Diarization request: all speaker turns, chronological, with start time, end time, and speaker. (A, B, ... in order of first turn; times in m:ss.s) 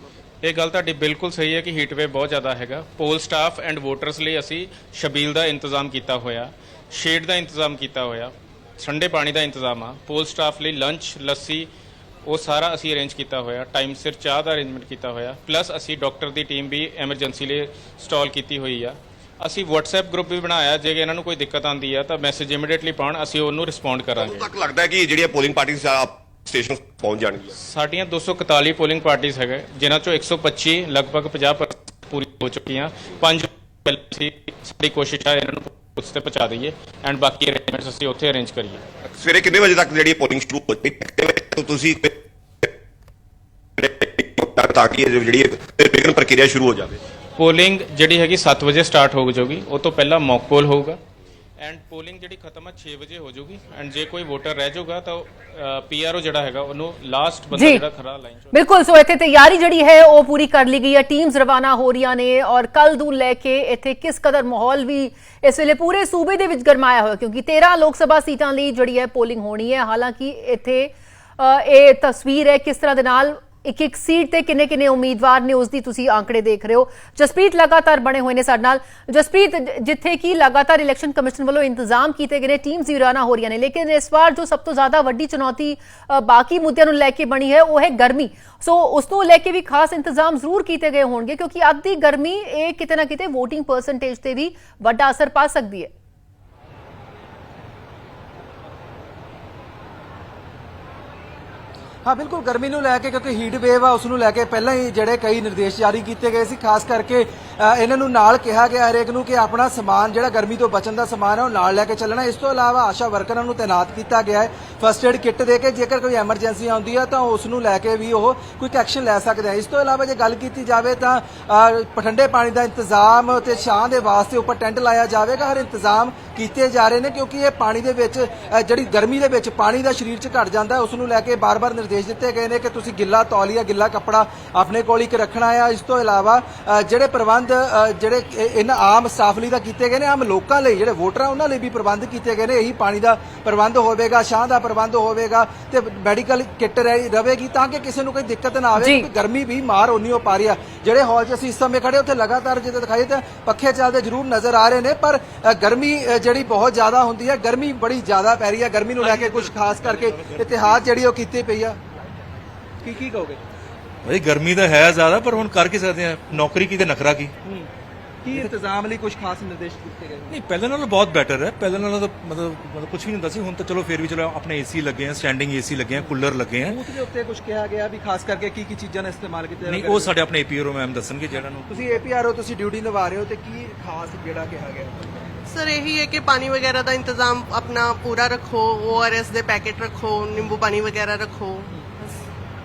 0:00.4-0:11.7 A
0:12.2-0:24.5 A
0:24.2-0:27.5 B
0:27.6-0:38.8 A
0:39.1-0:42.7 B
0:43.8-0:47.0 B
0:47.4-0:51.0 A
0:51.6-0:58.6 A
0:57.5-0:57.8 C
0:58.5-1:35.9 C
1:42.0-2:41.8 D
2:28.8-2:29.1 C
2:42.8-2:43.4 D
2:44.0-2:47.3 E
2:48.2-2:50.3 D
2:50.3-2:56.8 E
2:55.9-3:00.1 D
2:59.6-3:01.9 E
3:01.7-3:05.5 D
3:05.5-3:12.2 F